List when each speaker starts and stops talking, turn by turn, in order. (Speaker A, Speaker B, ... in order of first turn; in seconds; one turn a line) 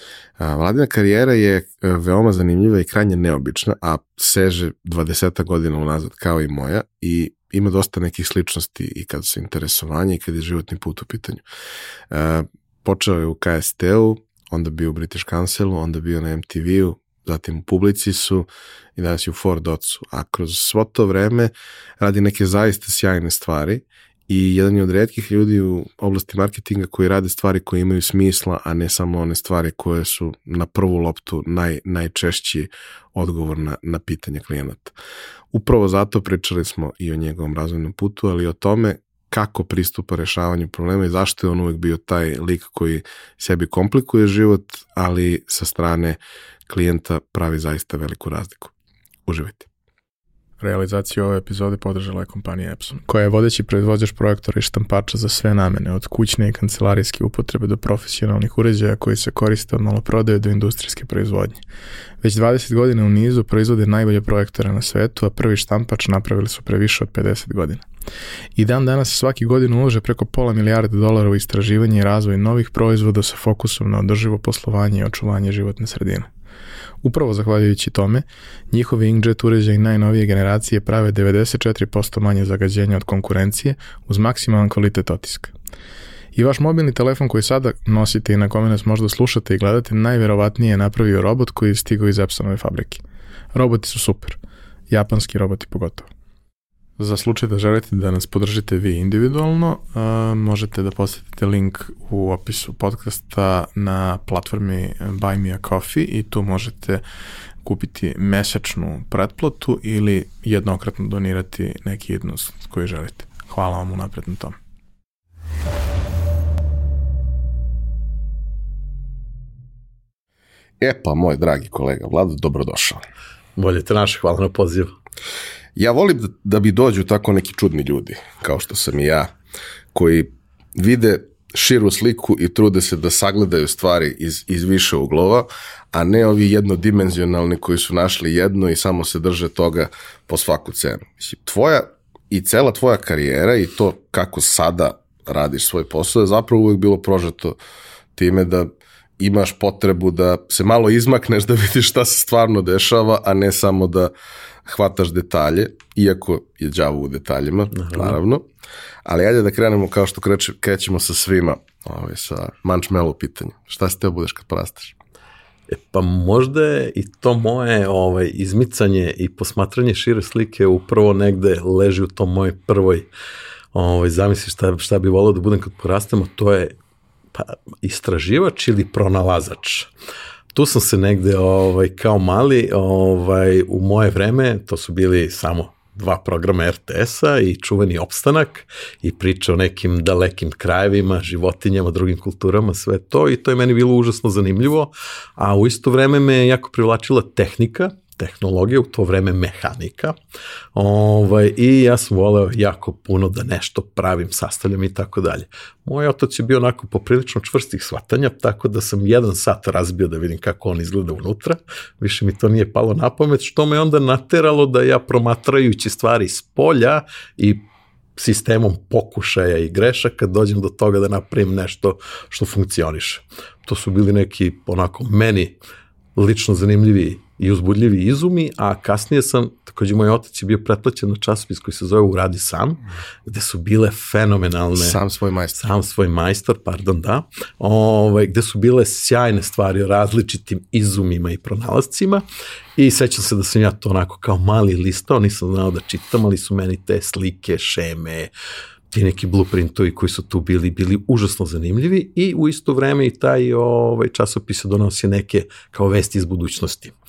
Speaker A: 0.4-11.4
Speaker A: 12.1-34.9
Speaker A: 35.5-48.7
Speaker A: 49.2-49.7
Speaker B: 50.6-61.6
Speaker B: 62.2-67.8
Speaker B: 68.5-76.3
Speaker B: 77.0-85.5
Speaker B: 86.3-93.0
Speaker B: 93.5-94.4
Speaker B: 94.9-96.1
Speaker B: 97.0-107.0
Speaker B: 107.6-114.6
Speaker A: 120.8-123.0
Speaker C: 123.6-124.9
Speaker A: 125.8-129.3
Speaker A: 129.9-147.6
Speaker A: 148.2-154.1
Speaker A: 154.6-158.4
Speaker C: 157.7-158.2
Speaker A: 159.0-165.0
Speaker C: 165.7-173.1
Speaker C: 173.7-176.7
Speaker C: 177.3-179.9
Speaker C: 180.5-200.1
Speaker C: 200.7-217.6
Speaker C: 218.2-225.6
Speaker C: 226.2-235.0
Speaker A: 234.7-235.6
Speaker C: 235.6-242.2
Speaker C: 242.8-248.3
Speaker C: 248.9-256.9